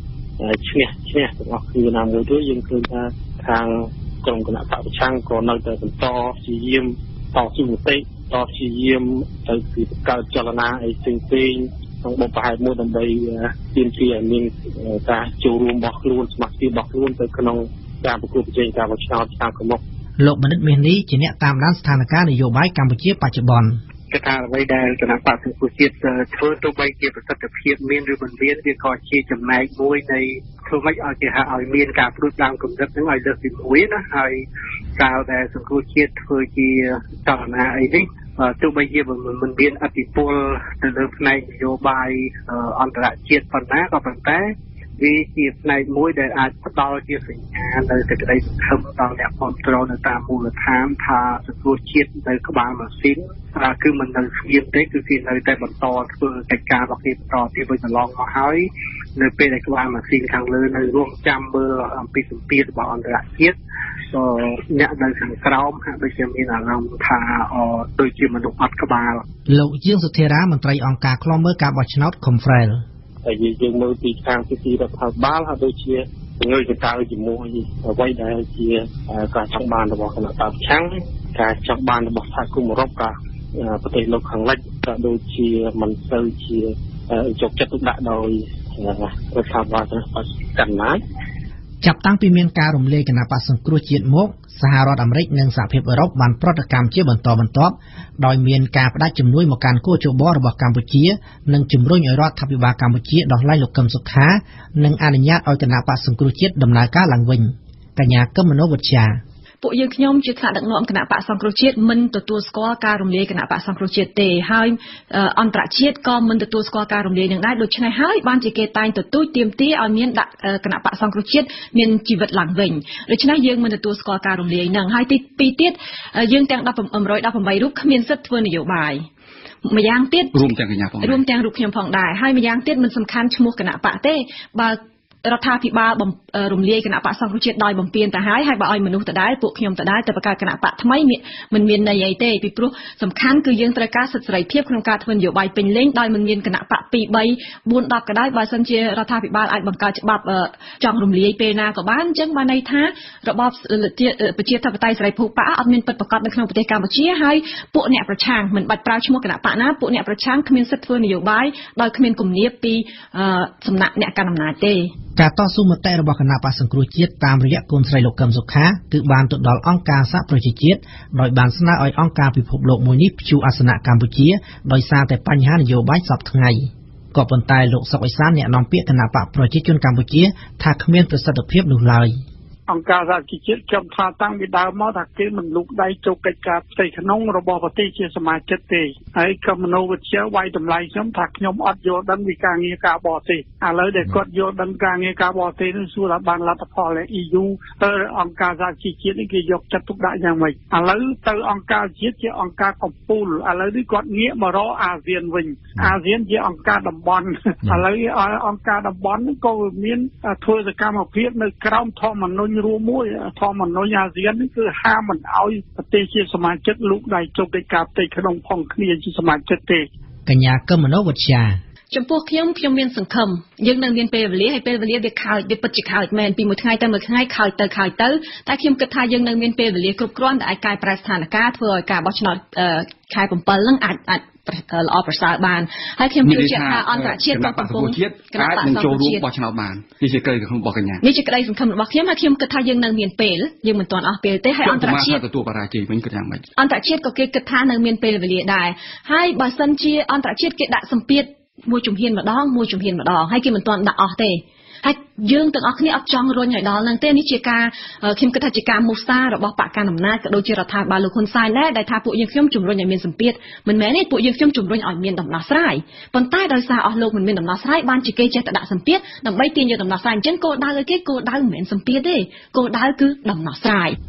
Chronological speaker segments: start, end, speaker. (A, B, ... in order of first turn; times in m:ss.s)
0:00.4-0:19.8 A
0:20.2-0:23.8 B
0:24.1-0:34.4 C
0:35.0-1:03.6 C
1:04.1-1:09.2 C
1:09.5-1:12.8 B
1:13.2-1:31.0 A
1:31.8-1:49.2 B
1:49.6-2:09.1 D
2:09.6-2:10.4 D
2:10.3-2:11.2 E
2:11.0-2:44.9 D
2:45.2-3:02.2 B
3:02.7-3:39.9 F
3:40.2-3:41.6 B
3:41.9-3:59.2 D
3:56.2-4:01.0 E
4:01.0-4:05.2 D
4:04.6-4:06.4 E
4:06.6-4:34.0 D